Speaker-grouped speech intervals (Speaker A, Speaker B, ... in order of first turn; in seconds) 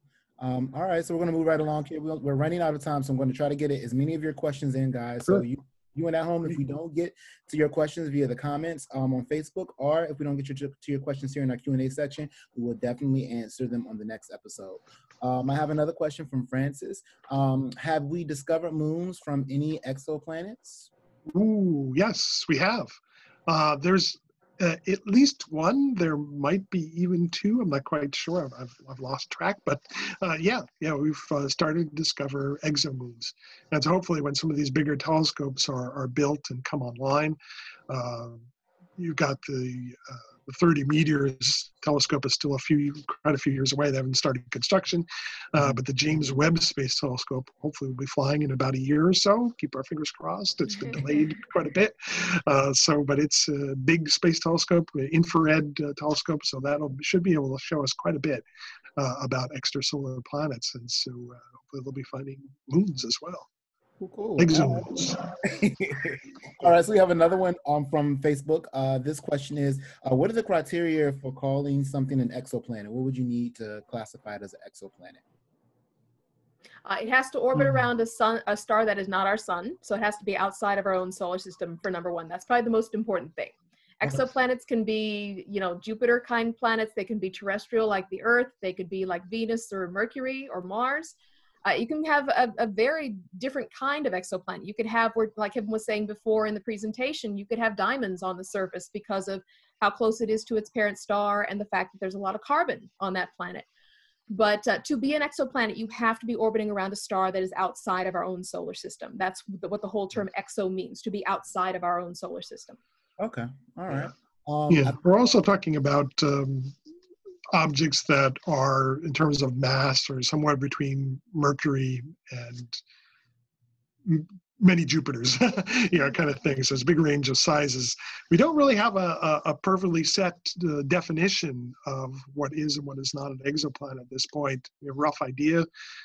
Speaker A: 0.4-20.9, 64.0-75.2, 113.2-115.0
Speaker B: 21.3-22.9, 23.5-37.4, 37.9-58.4, 59.0-63.5, 64.4-65.2, 114.7-116.8, 117.5-122.8, 124.0-135.7
Speaker C: 76.8-103.7, 104.3-112.8